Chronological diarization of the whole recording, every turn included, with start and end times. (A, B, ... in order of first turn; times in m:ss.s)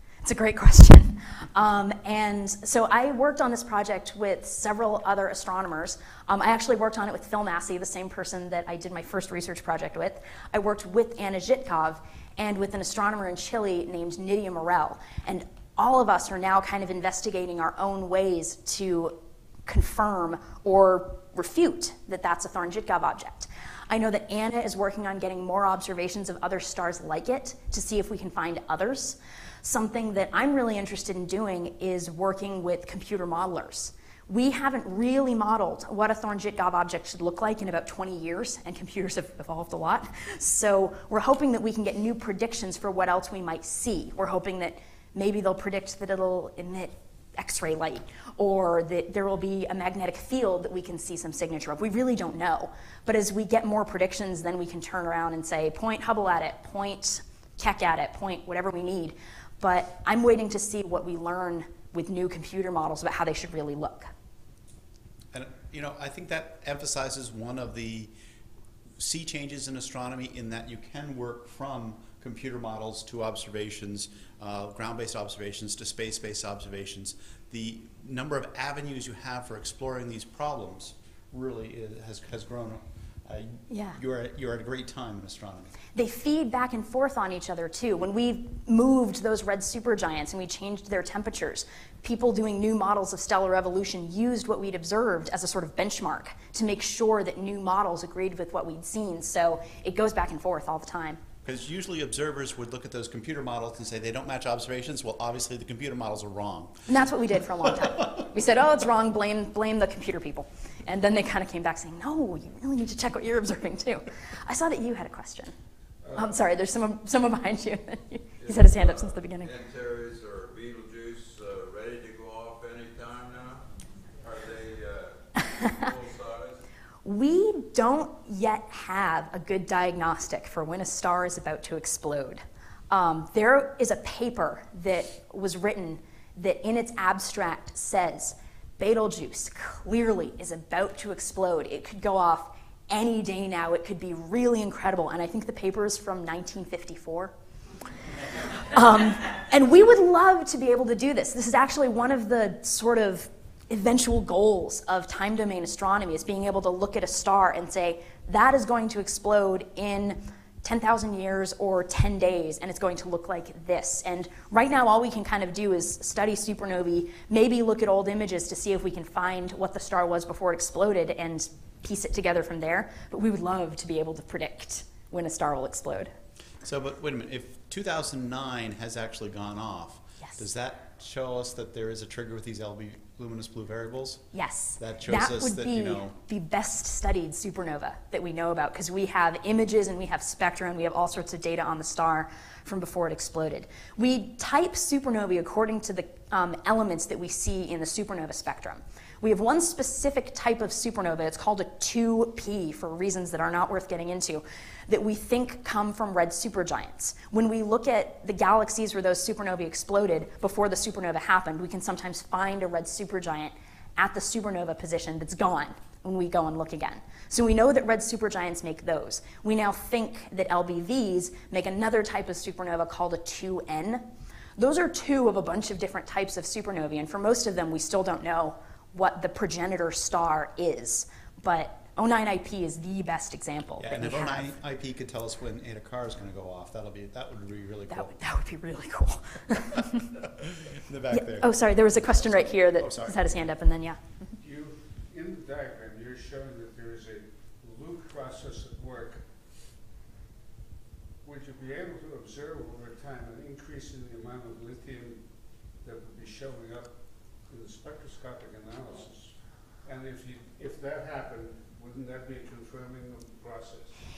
0:00.2-1:04.1 A
1:05.3-1:08.1 B
1:09.0-1:25.7 B
1:23.7-1:24.0 A
1:26.0-1:41.2 A
1:41.4-1:46.8 B
1:46.9-1:55.5 A
1:56.1-1:59.5 A
1:58.4-2:03.6 C
2:04.2-2:06.6 C
2:07.0-2:27.3 A
2:28.7-2:56.1 A
2:56.6-3:04.2 B
3:04.3-3:44.1 A
3:04.8-3:06.1 B
3:44.6-3:54.5 A
3:53.8-3:58.1 B
3:57.9-4:00.1 A
4:00.4-4:01.6 B
4:01.1-4:04.0 A
4:02.2-4:03.2 B
4:04.4-4:09.2 D
4:11.2-4:15.2 D
4:15.8-4:16.9 D
4:17.5-4:19.3 D
4:19.8-4:23.9 D